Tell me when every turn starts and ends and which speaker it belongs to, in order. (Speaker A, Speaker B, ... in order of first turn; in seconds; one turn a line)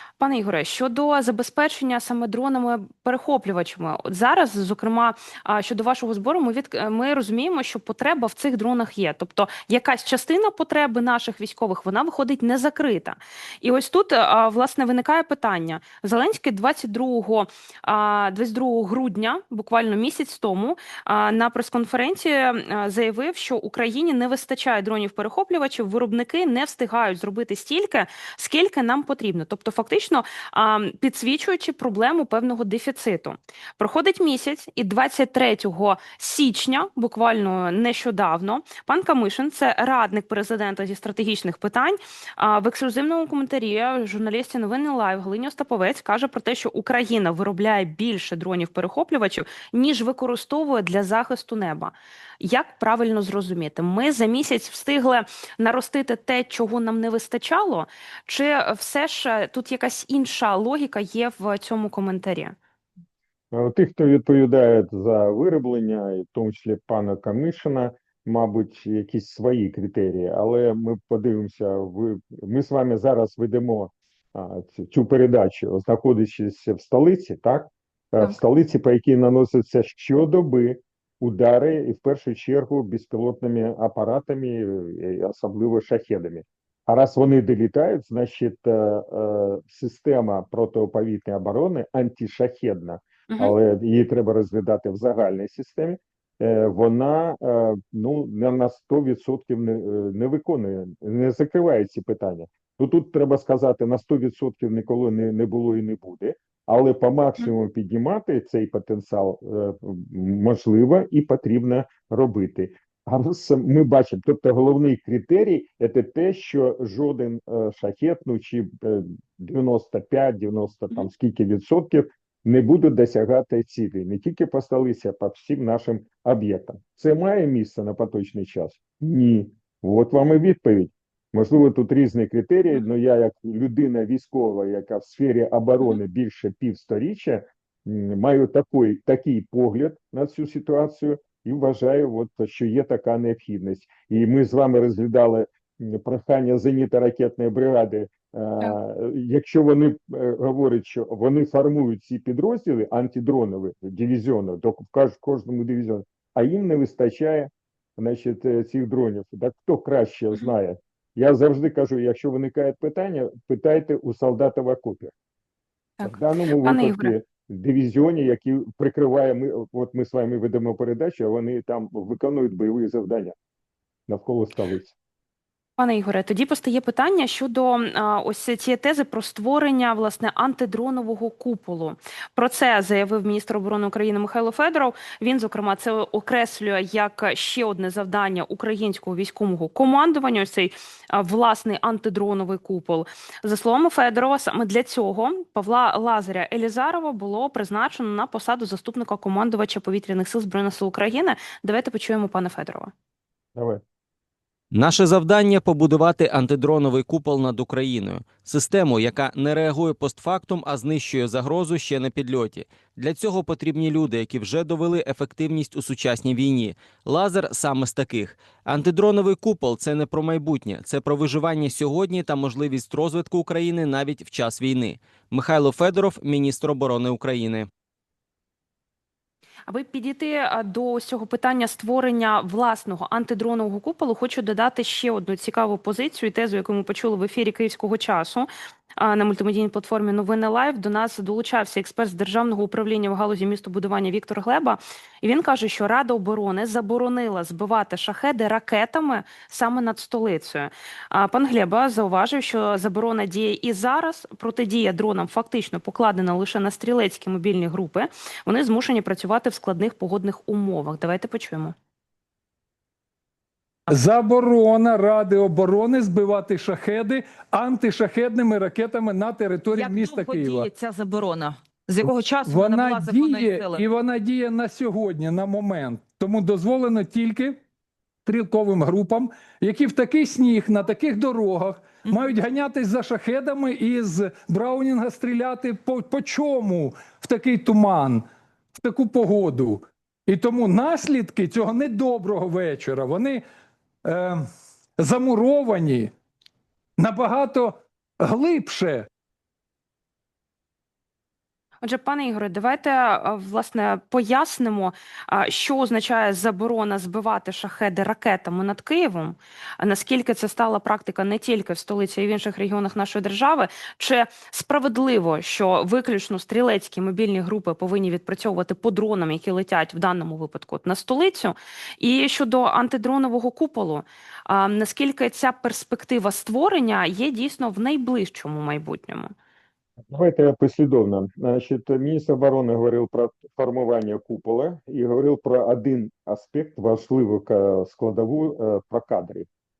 Speaker A: 0.2-62.5
Speaker B: 63.5-165.1
Speaker A: 166.0-167.1
Speaker B: 166.0-173.3
Speaker B: 174.1-174.9
Speaker A: 175.8-202.9
Speaker B: 203.5-203.8
Speaker C: 204.7-227.7
Speaker A: 229.7-261.7
Speaker D: 263.9-270.7
Speaker E: 269.7-273.8
Speaker D: 272.0-277.6
Speaker D: 278.2-288.3
Speaker D: 288.8-293.4
Speaker D: 294.0-294.5
Speaker D: 295.0-296.1
Speaker D: 297.0-299.1
Speaker A: 301.8-329.3
Speaker B: 330.1-339.5